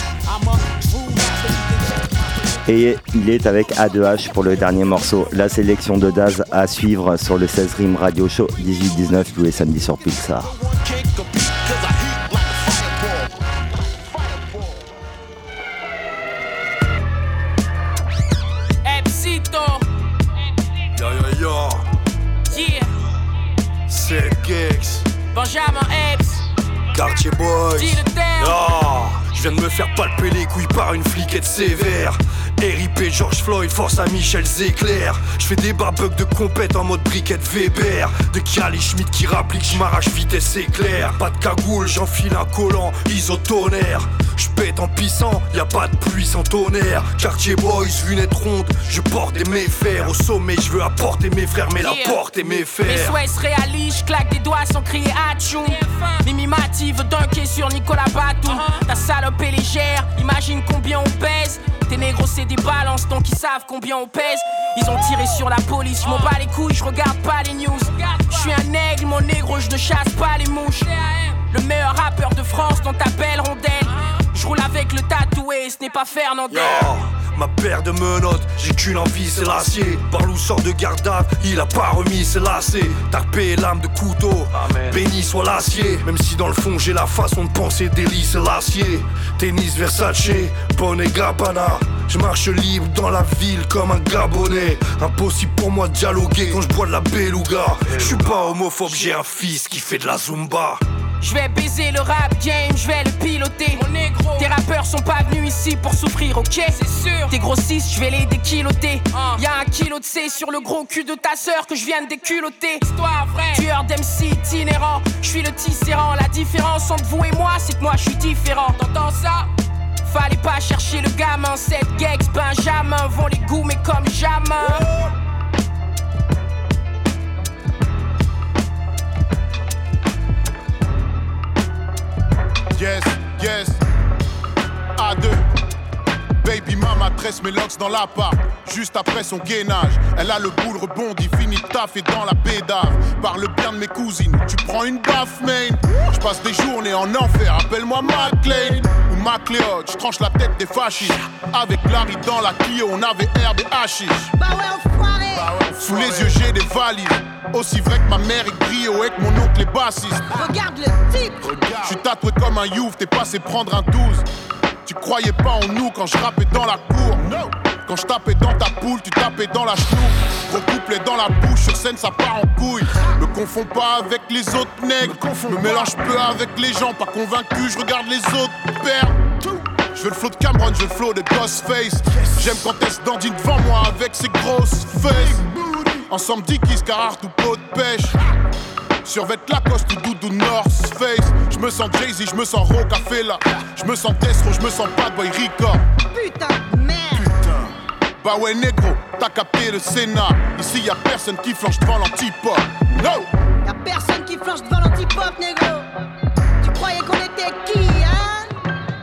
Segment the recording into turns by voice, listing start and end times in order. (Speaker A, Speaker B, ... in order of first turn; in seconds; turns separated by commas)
Speaker A: 2.7-10.6, Speaker B: 18.8-19.9, Speaker C: 21.0-21.8, Speaker B: 22.5-22.9, Speaker C: 23.9-25.1, Speaker B: 25.3-26.4, Speaker C: 26.9-53.2, Speaker B: 27.8-28.6, Speaker B: 51.8-76.9, Speaker C: 76.5-100.8, Speaker B: 101.2-119.5, Speaker B: 120.0-124.9, Speaker D: 132.8-133.8, Speaker D: 135.0-135.4, Speaker D: 136.4-154.3, Speaker E: 154.3-155.6, Speaker D: 155.8-160.2, Speaker E: 160.3-161.5, Speaker D: 161.8-164.3, Speaker D: 164.8-167.3, Speaker D: 167.9-179.2, Speaker D: 179.9-185.5, Speaker D: 186.1-188.1, Speaker D: 189.0-195.8, Speaker E: 196.1-197.3, Speaker D: 197.2-197.7, Speaker D: 198.2-203.3, Speaker E: 203.7-205.9, Speaker E: 206.6-208.6